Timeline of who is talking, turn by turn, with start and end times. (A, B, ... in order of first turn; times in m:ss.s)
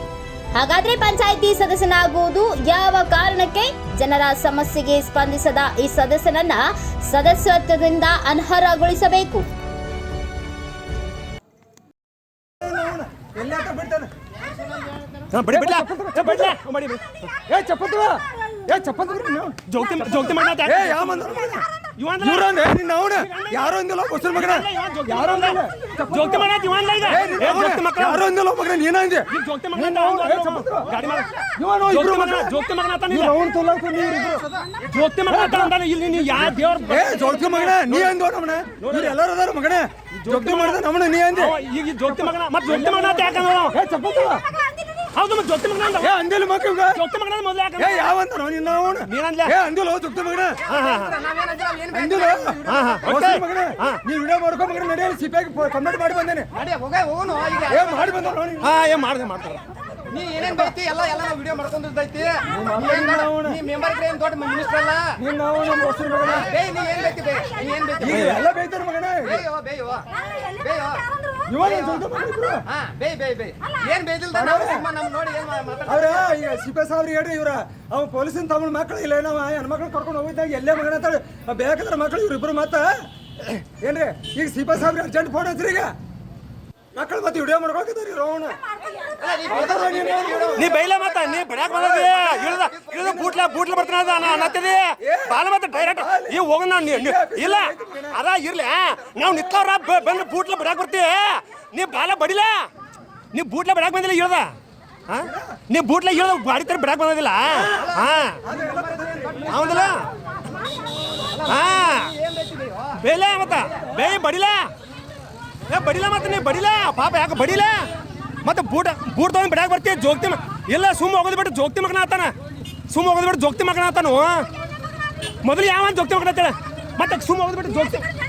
0:00.5-0:09.4 A
0:12.6-0:14.1 B
0:15.3-0:17.0 C
0:15.5-0:16.6 B
0:17.5-0:21.6 B
0:19.7-0:21.2 C
0:22.0-0:22.5 C
0:22.2-0:26.5 B
0:23.1-0:23.6 C
0:24.3-0:28.2 C
0:27.0-0:31.0 B
0:29.3-0:31.3 C
0:31.6-0:32.5 B
0:31.9-0:33.3 C
0:33.1-0:34.5 B
0:34.9-0:38.1 C
0:35.3-0:35.7 B
0:36.3-0:41.6 B
0:38.8-0:39.2 C
0:40.2-0:40.8 C
0:41.3-0:43.7 C
0:42.1-0:44.4 B
0:45.2-0:46.1 C
0:46.0-0:47.0 B
0:46.9-0:48.0 C
0:47.8-0:50.6 B
0:49.1-0:49.5 C
0:50.6-0:53.1 D
0:50.7-0:51.2 C
0:51.9-0:56.5 B
0:52.6-0:54.0 C
0:56.5-0:58.0 D
0:57.7-0:58.7 B
0:58.6-0:59.6 C
1:00.1-1:05.2 D
1:02.5-1:03.6 B
1:05.2-1:06.5 B
1:06.2-1:08.4 D
1:08.0-1:09.4 B
1:09.2-1:11.0 D
1:11.5-1:12.6 B
1:11.6-1:12.0 D
1:12.7-1:16.2 D
1:14.3-1:14.8 B
1:15.9-1:25.9 B
1:26.9-1:28.6 B
1:29.2-1:30.7 D
1:29.5-1:30.8 B
1:30.5-1:42.7 C
1:31.8-1:32.3 B
1:35.0-1:38.2 B
1:43.3-1:44.5 C
1:45.1-1:48.4 C
1:45.2-1:45.6 B
1:47.5-1:47.9 B
1:47.7-1:49.9 D
1:48.4-1:49.5 B
1:49.5-1:50.1 C
1:51.3-1:53.0 D
1:51.4-1:52.2 C
1:53.0-1:54.7 C
1:55.7-1:57.8 C
1:58.4-2:02.3 C
2:02.9-2:04.5 C
2:05.4-2:08.1 C